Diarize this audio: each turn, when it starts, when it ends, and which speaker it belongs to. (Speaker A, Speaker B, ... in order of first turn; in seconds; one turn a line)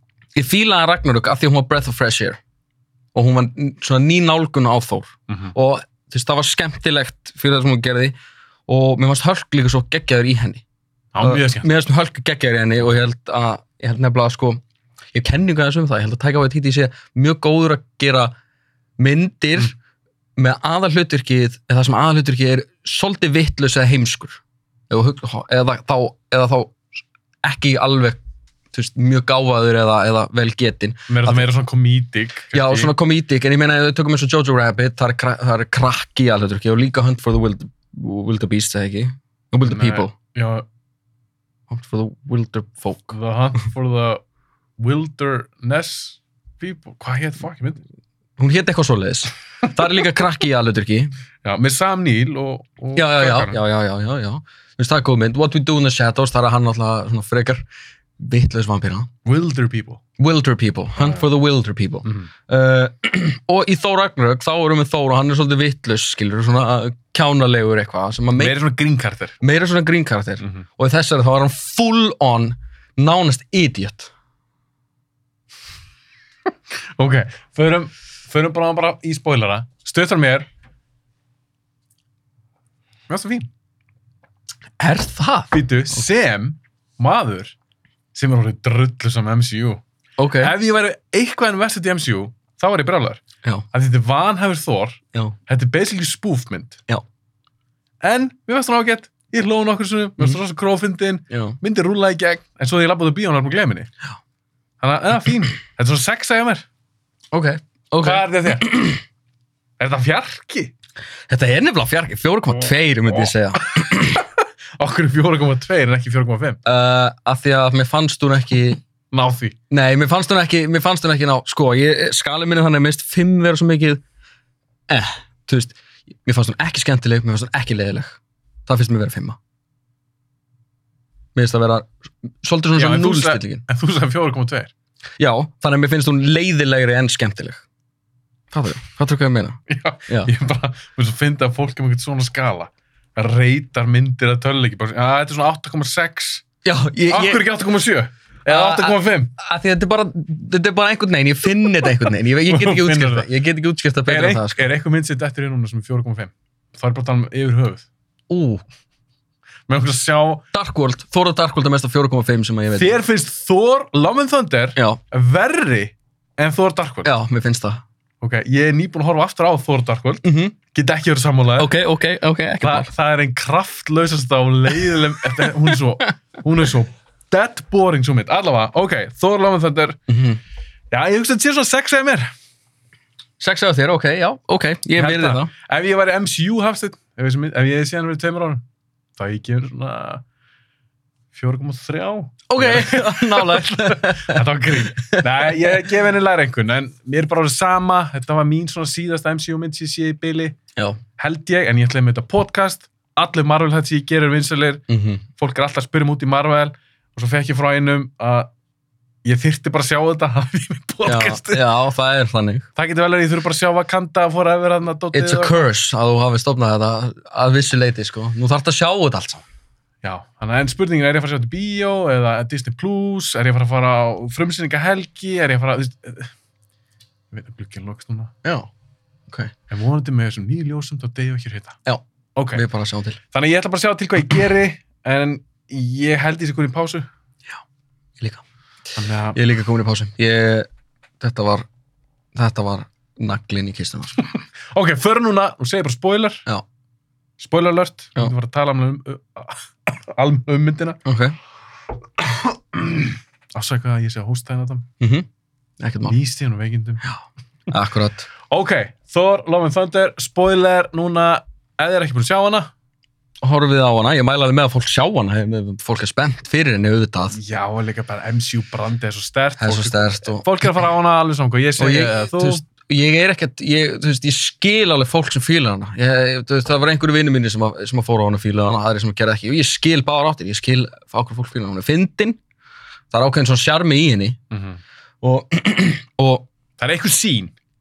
Speaker A: 0.3-2.4
Speaker A: 3.1-8.2
Speaker B: 5.3-5.5
Speaker A: 8.7-10.6
Speaker B: 11.1-11.7
Speaker A: 11.2-14.6
Speaker A: 15.1-18.3
Speaker A: 19.0-19.8
Speaker A: 20.4-26.8
Speaker A: 27.4-28.2
Speaker A: 28.7-31.5
Speaker B: 31.1-32.9
Speaker A: 32.5-40.1
Speaker B: 39.6-40.7
Speaker A: 41.7-43.2
Speaker B: 43.1-44.2
Speaker B: 44.8-47.8
Speaker A: 48.4-51.1
Speaker B: 51.4-53.6
Speaker A: 53.0-57.6
Speaker A: 58.2-59.1
Speaker B: 59.2-60.0
Speaker A: 60.2-68.6
Speaker B: 61.0-61.2
Speaker B: 62.0-62.3
Speaker B: 68.4-69.4
Speaker A: 69.4-74.1
Speaker B: 77.0-80.5
Speaker B: 83.1-83.5
Speaker A: 84.8-86.0
Speaker B: 85.5-87.6
Speaker B: 88.1-89.8
Speaker A: 90.2-90.5
Speaker B: 90.4-96.8
Speaker B: 98.0-103.9
Speaker A: 101.3-101.6
Speaker B: 104.8-106.7
Speaker A: 107.3-109.0
Speaker B: 108.0-108.9
Speaker B: 109.8-110.7
Speaker A: 111.3-114.2
Speaker B: 113.2-114.0
Speaker B: 114.8-116.6
Speaker A: 116.7-118.8
Speaker B: 119.1-119.6
Speaker A: 119.7-124.0
Speaker A: 124.9-129.4
Speaker A: 131.3-133.6
Speaker B: 132.8-134.7
Speaker A: 135.2-137.6
Speaker A: 138.5-140.3
Speaker B: 139.7-146.4
Speaker A: 146.6-147.5
Speaker B: 147.1-149.3
Speaker A: 148.5-154.6
Speaker B: 152.5-153.3
Speaker B: 154.1-157.9
Speaker A: 158.3-158.6
Speaker B: 159.7-160.4
Speaker A: 160.5-163.0
Speaker B: 162.7-167.1
Speaker A: 167.1-167.8
Speaker B: 168.2-171.7
Speaker A: 170.2-170.5
Speaker A: 171.6-172.9
Speaker B: 172.6-180.0
Speaker A: 180.1-180.4
Speaker B: 180.9-182.3
Speaker A: 183.4-185.5
Speaker B: 185.0-188.6
Speaker B: 189.2-190.2
Speaker B: 191.3-200.6
Speaker A: 192.5-195.7
Speaker B: 201.2-204.8
Speaker A: 204.9-205.2
Speaker B: 205.4-208.5
Speaker B: 209.2-211.7
Speaker A: 211.1-212.7
Speaker B: 212.8-215.7
Speaker A: 215.1-219.4
Speaker B: 220.0-226.3
Speaker B: 227.3-228.3
Speaker A: 228.4-228.7
Speaker B: 229.7-231.8
Speaker B: 232.4-232.7
Speaker A: 232.5-233.2
Speaker B: 233.3-237.1
Speaker B: 239.0-239.4
Speaker A: 239.3-240.7
Speaker A: 241.2-241.7
Speaker A: 242.3-244.2
Speaker B: 244.7-246.5
Speaker B: 247.4-251.0
Speaker A: 251.1-251.4
Speaker B: 252.3-254.9
Speaker A: 255.0-255.3
Speaker A: 255.8-256.2
Speaker B: 256.1-257.1
Speaker A: 257.1-258.3
Speaker B: 258.5-262.7
Speaker A: 263.4-267.4
Speaker B: 267.3-272.6
Speaker A: 269.6-270.5
Speaker A: 271.8-282.4
Speaker A: 283.1-284.4
Speaker B: 284.5-284.8
Speaker A: 285.2-286.5
Speaker B: 286.8-287.5